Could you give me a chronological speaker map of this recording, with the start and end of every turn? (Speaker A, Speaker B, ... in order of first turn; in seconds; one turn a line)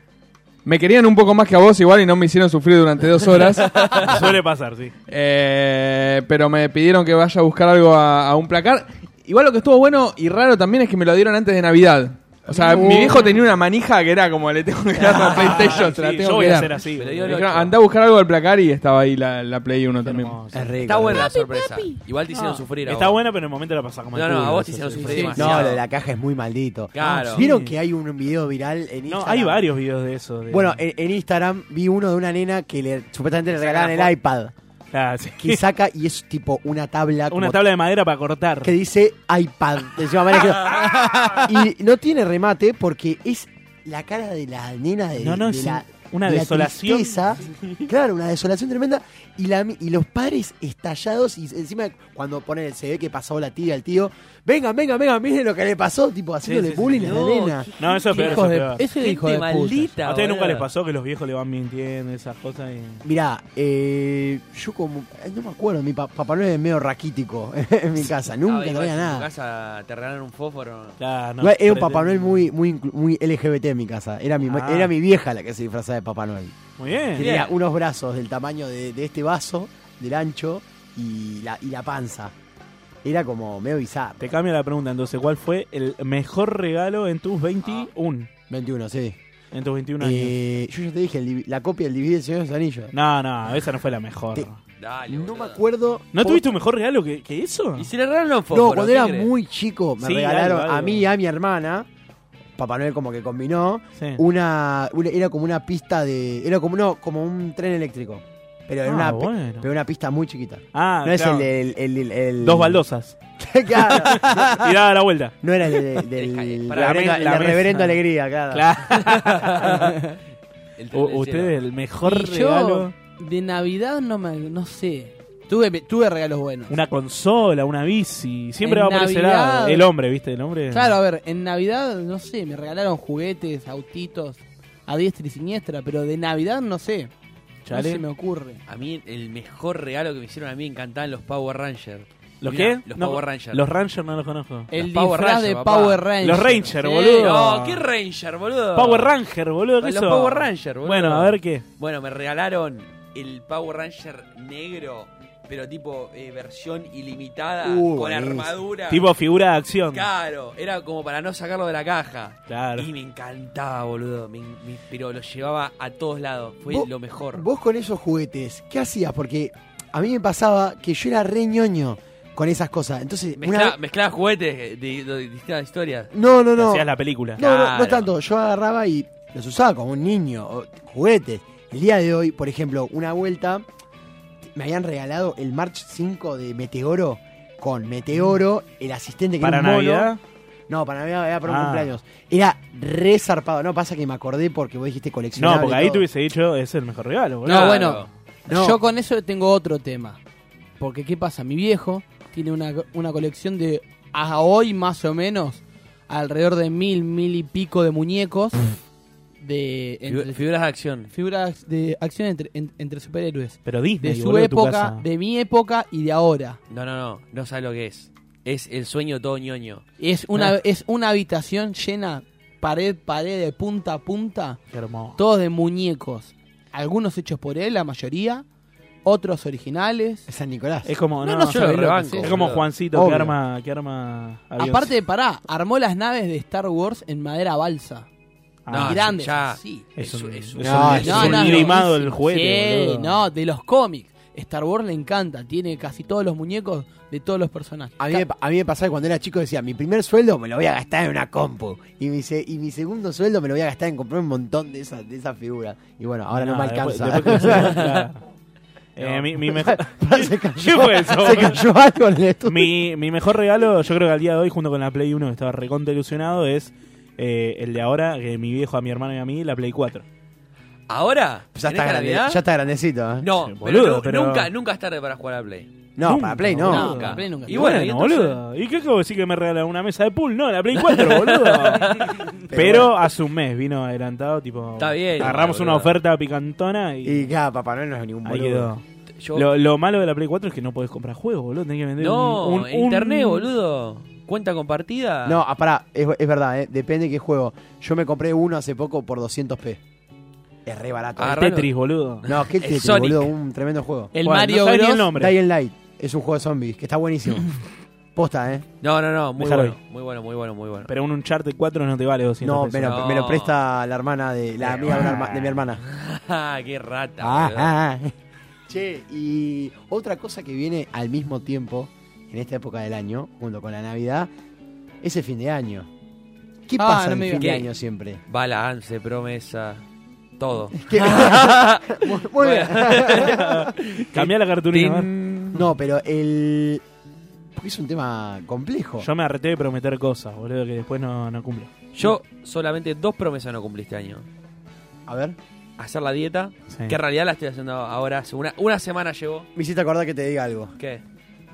Speaker A: 0.7-4.2
Speaker B: 4.0-4.9
Speaker A: 5.1-20.4
Speaker B: 12.6-13.3
Speaker C: 12.7-13.1
Speaker B: 15.0-17.5
Speaker D: 16.8-17.7
Speaker B: 20.0-20.8
Speaker C: 20.5-21.3
Speaker D: 20.9-23.2
Speaker B: 22.3-25.7
Speaker D: 24.1-25.8
Speaker C: 25.3-29.6
Speaker D: 26.9-27.5
Speaker B: 27.1-27.8
Speaker B: 29.1-30.8
Speaker C: 30.5-34.5
Speaker D: 33.5-34.1
Speaker B: 34.9-35.6
Speaker C: 35.4-37.6
Speaker B: 37.3-38.7
Speaker C: 38.6-57.7
Speaker D: 40.7-41.3
Speaker B: 45.2-47.2
Speaker D: 56.5-58.5
Speaker B: 56.9-57.1
Speaker B: 57.8-58.9
Speaker E: 58.0-59.9
Speaker D: 59.0-60.7
Speaker B: 60.0-63.0
Speaker C: 63.0-69.3
Speaker D: 68.5-71.0
Speaker B: 71.0-72.5
Speaker C: 71.4-76.6
Speaker B: 74.4-74.9
Speaker B: 76.8-77.3
Speaker C: 77.1-82.3
Speaker D: 77.2-77.5
Speaker C: 83.0-84.2
Speaker B: 84.2-88.3
Speaker C: 88.5-89.2
Speaker B: 89.5-90.3
Speaker C: 90.0-92.9
Speaker B: 92.9-94.6
Speaker D: 94.8-95.6
Speaker C: 95.1-96.4
Speaker B: 96.1-97.9
Speaker D: 97.8-99.3
Speaker C: 98.5-101.9
Speaker B: 100.0-101.0
Speaker C: 102.6-112.8
Speaker B: 108.8-109.7
Speaker B: 110.7-111.5
Speaker B: 112.4-113.2
Speaker C: 113.4-114.7
Speaker B: 113.8-115.4
Speaker C: 115.4-119.0
Speaker D: 116.2-117.1
Speaker B: 116.7-118.0
Speaker B: 118.5-119.9
Speaker D: 119.1-120.0
Speaker D: 120.8-121.6
Speaker B: 120.9-122.9
Speaker E: 122.0-126.8
Speaker B: 126.7-131.0
Speaker E: 128.6-129.9
Speaker E: 130.7-137.1
Speaker B: 137.7-138.0
Speaker E: 137.7-138.6
Speaker D: 138.7-143.6
Speaker B: 142.4-144.7
Speaker E: 144.7-147.4
Speaker D: 144.7-146.1
Speaker B: 146.2-147.8
Speaker D: 147.2-149.1
Speaker B: 148.8-151.7
Speaker D: 149.8-159.0
Speaker C: 157.6-158.6
Speaker B: 158.9-160.1
Speaker D: 159.9-167.5
Speaker B: 162.5-162.9
Speaker C: 166.7-173.8
Speaker D: 173.4-176.1
Speaker C: 176.1-183.7
Speaker B: 176.6-177.4
Speaker D: 177.4-178.1
Speaker C: 184.5-190.1
Speaker B: 189.4-190.2
Speaker C: 190.7-196.1
Speaker B: 191.5-192.0
Speaker B: 195.4-198.0
Speaker E: 197.4-200.2
Speaker D: 197.5-198.1
Speaker C: 198.5-198.8
Speaker E: 200.8-208.8
Speaker E: 209.4-210.4
Speaker D: 210.1-211.1
Speaker E: 211.1-216.6
Speaker B: 213.7-215.0
Speaker D: 216.7-219.8
Speaker E: 220.0-224.6
Speaker B: 224.7-225.2
Speaker E: 225.2-228.4
Speaker E: 229.1-230.3
Speaker C: 230.3-230.9
Speaker B: 230.8-234.9
Speaker D: 231.2-232.7
Speaker C: 232.9-233.4
Speaker E: 234.6-238.1
Speaker B: 238.7-239.2
Speaker D: 238.7-241.8
Speaker E: 238.8-239.8
Speaker B: 240.0-243.2
Speaker C: 240.6-241.7
Speaker E: 241.0-248.3
Speaker C: 248.0-257.9
Speaker B: 256.3-258.2
Speaker D: 257.5-258.0
Speaker B: 259.0-261.6
Speaker C: 259.0-262.7
Speaker B: 262.5-270.0
Speaker D: 270.9-272.4
Speaker C: 271.5-273.3
Speaker D: 273.2-275.7
Speaker B: 273.5-274.5
Speaker C: 276.0-277.0
Speaker B: 276.0-287.3
Speaker E: 276.7-277.9
Speaker D: 276.7-278.4
Speaker D: 280.8-282.9
Speaker C: 282.5-282.9
Speaker D: 284.8-285.9
Speaker C: 287.1-288.7
Speaker B: 288.2-288.8
Speaker D: 289.2-289.5
Speaker B: 289.3-293.5
Speaker D: 292.0-295.4
Speaker C: 295.2-299.8
Speaker C: 300.7-301.4
Speaker D: 301.2-301.7
Speaker B: 301.3-302.2
Speaker D: 302.2-303.3
Speaker C: 302.2-304.1
Speaker E: 304.1-305.1
Speaker B: 304.2-305.4
Speaker C: 305.1-307.5
Speaker C: 308.1-308.7
Speaker D: 308.8-310.9
Speaker B: 309.4-309.8
Speaker B: 310.9-313.0
Speaker C: 312.4-315.8
Speaker D: 312.8-313.6
Speaker D: 314.6-317.7
Speaker C: 317.2-318.1
Speaker C: 318.7-324.3
Speaker C: 325.0-325.9
Speaker C: 326.7-328.2
Speaker E: 326.8-327.5
Speaker D: 327.4-327.7
Speaker D: 328.3-329.8
Speaker D: 330.4-333.5
Speaker C: 330.8-334.3
Speaker B: 333.3-335.1
Speaker D: 334.7-335.5
Speaker C: 335.5-336.8
Speaker C: 337.6-339.1
Speaker B: 339.0-341.7
Speaker D: 341.9-344.3
Speaker C: 345.1-345.4
Speaker D: 345.8-349.5
Speaker B: 346.7-347.0
Speaker C: 349.6-350.7